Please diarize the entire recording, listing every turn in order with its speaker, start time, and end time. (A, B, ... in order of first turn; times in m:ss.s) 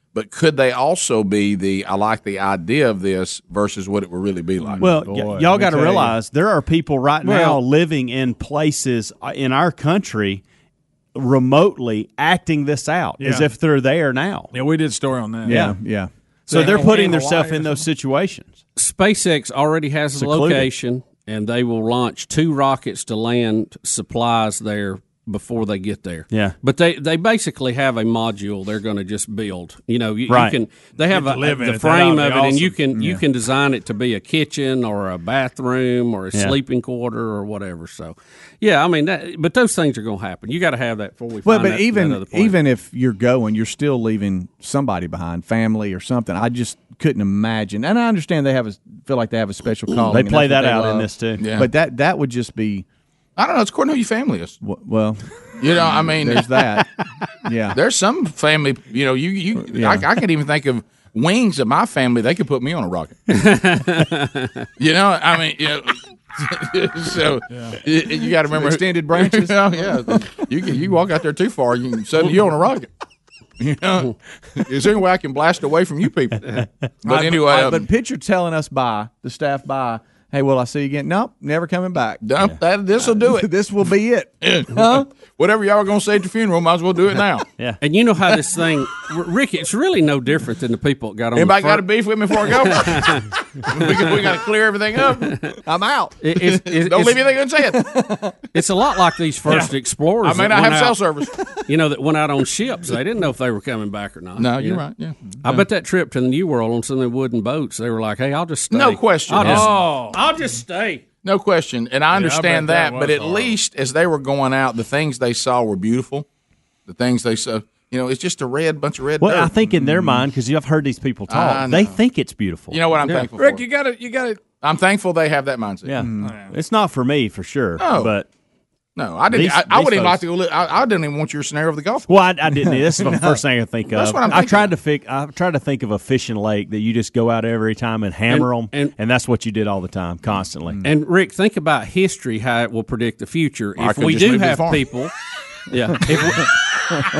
0:00.1-0:04.9 A
0:04.8-0:06.1 B
0:04.8-0:10.4 C
0:07.2-0:07.6 D
0:11.1-0:14.5 C
0:13.2-0:13.5 E
0:14.5-0:15.6 E
0:15.4-0:16.1 B
0:15.5-0:15.8 C
0:16.5-0:18.5 C
0:16.5-0:17.8 E
0:16.5-0:17.2 D
0:18.8-0:42.6 D
0:20.1-0:20.7 C
0:26.3-0:26.6 C
0:30.3-0:30.6 C
0:31.1-0:32.8 E
0:32.9-0:33.2 B
0:41.4-0:52.8 B
0:50.1-0:51.4 C
0:51.4-0:51.7 A
0:53.4-0:54.6 A
0:54.6-0:56.9 B
0:55.6-0:56.5 A
0:57.4-0:57.8 B
0:57.7-1:03.2 A
0:59.6-1:00.1 B
1:03.3-1:04.7 D
1:04.8-1:12.9 A
1:07.5-1:07.8 E
1:08.5-1:10.4 B
1:13.6-1:16.5 A
1:17.0-1:17.9 A
1:17.0-1:22.2 B
1:22.2-1:23.5 A
1:23.2-1:25.0 B
1:24.4-1:27.4 A
1:27.8-1:34.3 D
1:31.3-1:35.4 A
1:35.2-1:35.5 D
1:35.6-1:36.2 B
1:36.2-1:37.4 D
1:36.4-1:37.9 A
1:37.7-1:38.4 B
1:38.5-1:41.0 D
1:40.2-1:41.4 A
1:41.7-1:44.8 D
1:44.4-1:45.6 A
1:45.4-1:51.1 D
1:48.7-1:49.6 A
1:49.4-1:50.2 E
1:51.2-1:56.2 A
1:52.1-1:53.4 E
1:56.9-1:59.7 A
1:59.2-2:02.8 C
2:01.3-2:02.0 A
2:02.7-2:03.6 A
2:03.0-2:03.3 D
2:03.4-2:04.4 E
2:04.6-2:06.0 A
2:05.8-2:08.3 C
2:06.0-2:06.3 B
2:06.2-2:06.5 E
2:07.8-2:08.1 A
2:09.0-2:12.1 A
2:09.3-2:10.2 C
2:12.1-2:20.9 C
2:13.0-2:13.4 B
2:13.9-2:14.7 A
2:18.3-2:18.9 D
2:20.8-2:25.1 D
2:23.8-2:24.8 A
2:25.7-2:27.0 D